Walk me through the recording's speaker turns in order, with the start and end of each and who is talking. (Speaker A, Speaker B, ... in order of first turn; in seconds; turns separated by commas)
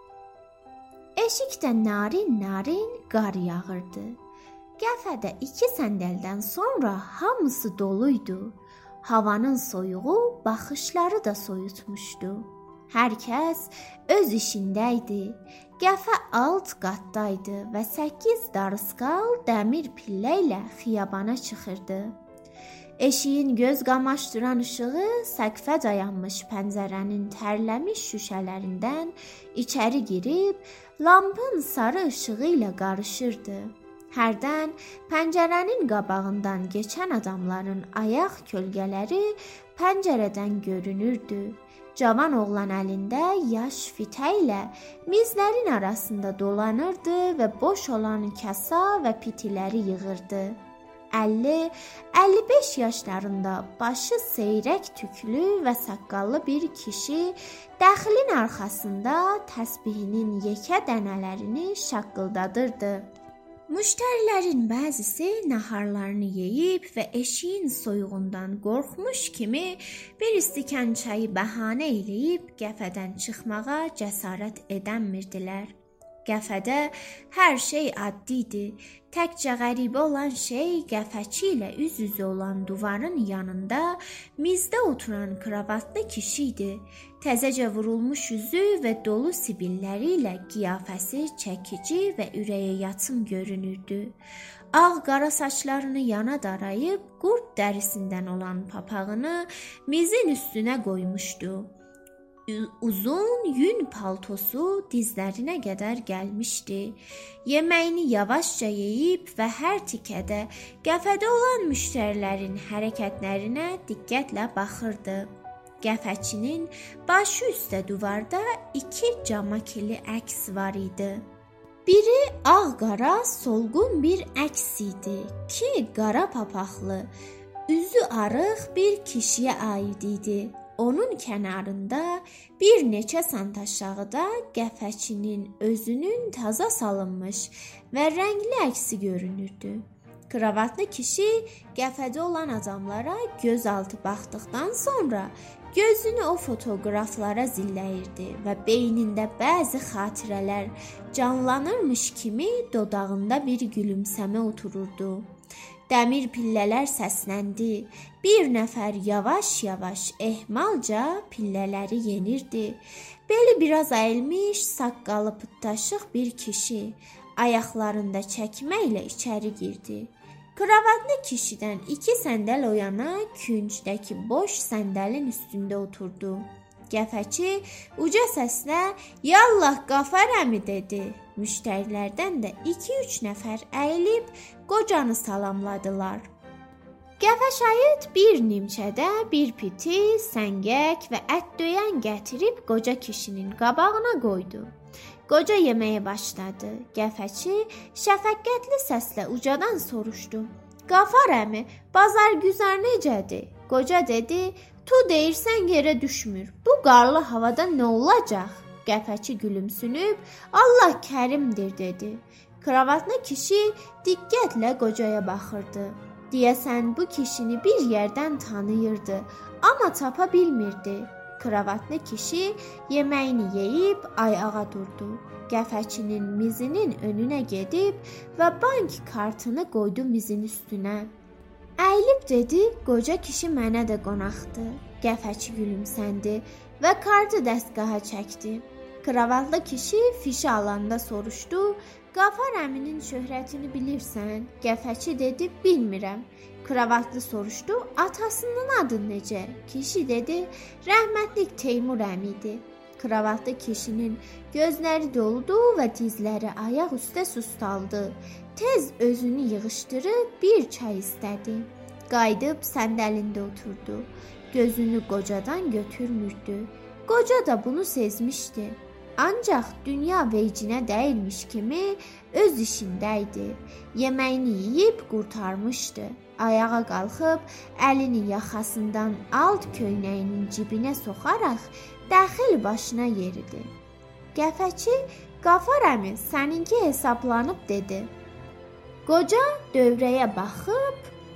Speaker A: 1.2-4.2, Speaker A: 4.8-22.2, Speaker A: 23.0-50.6, Speaker A: 51.1-63.1, Speaker A: 63.7-75.7, Speaker A: 76.2-94.2, Speaker A: 94.7-101.7, Speaker A: 102.5-115.3, Speaker A: 115.8-121.2, Speaker A: 121.9-127.1, Speaker A: 127.7-155.3, Speaker A: 155.9-186.3, Speaker A: 187.2-194.7, Speaker A: 195.3-231.1, Speaker A: 231.8-283.7, Speaker A: 284.3-288.1, Speaker A: 289.1-291.1